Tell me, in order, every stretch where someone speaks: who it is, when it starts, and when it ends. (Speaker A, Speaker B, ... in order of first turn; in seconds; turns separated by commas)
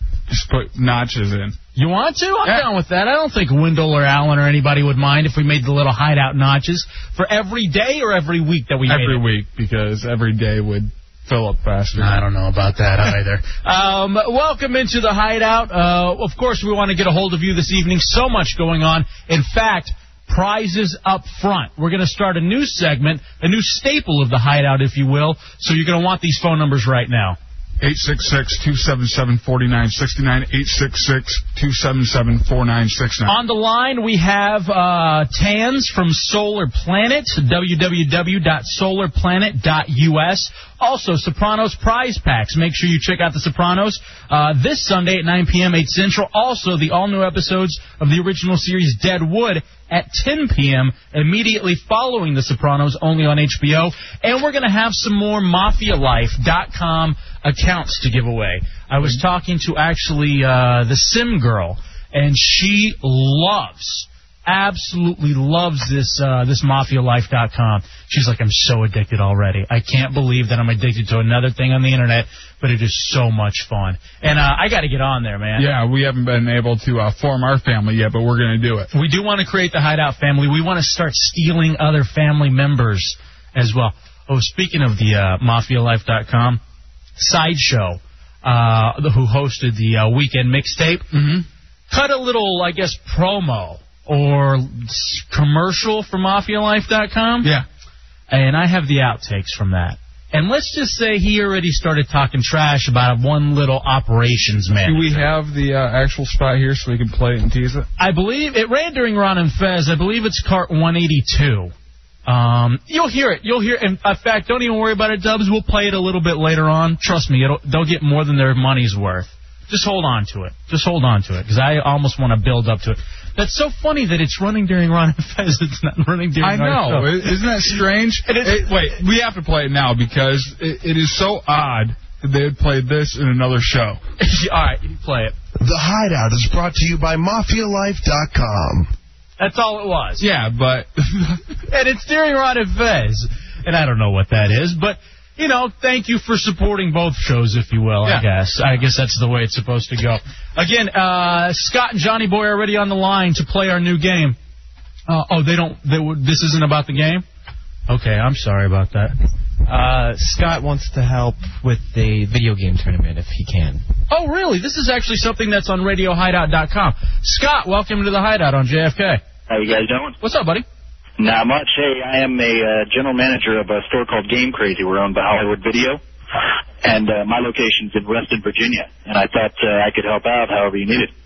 Speaker A: 0.3-1.6, Speaker B: 1.7-9.2, Speaker A: 8.8-12.2, Speaker B: 12.0-27.4, Speaker A: 27.8-33.4, Speaker B: 33.3-75.7, Speaker A: 75.6-78.9, Speaker B: 78.9-86.6, Speaker B: 87.2-91.1, Speaker A: 91.1-91.5, Speaker B: 91.9-97.5, Speaker B: 98.3-105.3, Speaker A: 104.8-107.9, Speaker B: 108.0-111.7, Speaker B: 112.2-127.7, Speaker A: 126.4-134.0, Speaker B: 128.2-128.9, Speaker B: 134.2-135.3, Speaker C: 135.6-138.9, Speaker B: 139.4-140.2, Speaker A: 140.2-141.5, Speaker B: 141.7-154.3, Speaker B: 155.1-157.2, Speaker B: 157.9-159.1, Speaker D: 159.7-163.8, Speaker B: 164.1-169.2, Speaker E: 169.5-170.2, Speaker B: 170.2-170.6, Speaker E: 171.2-176.0, Speaker E: 176.8-181.1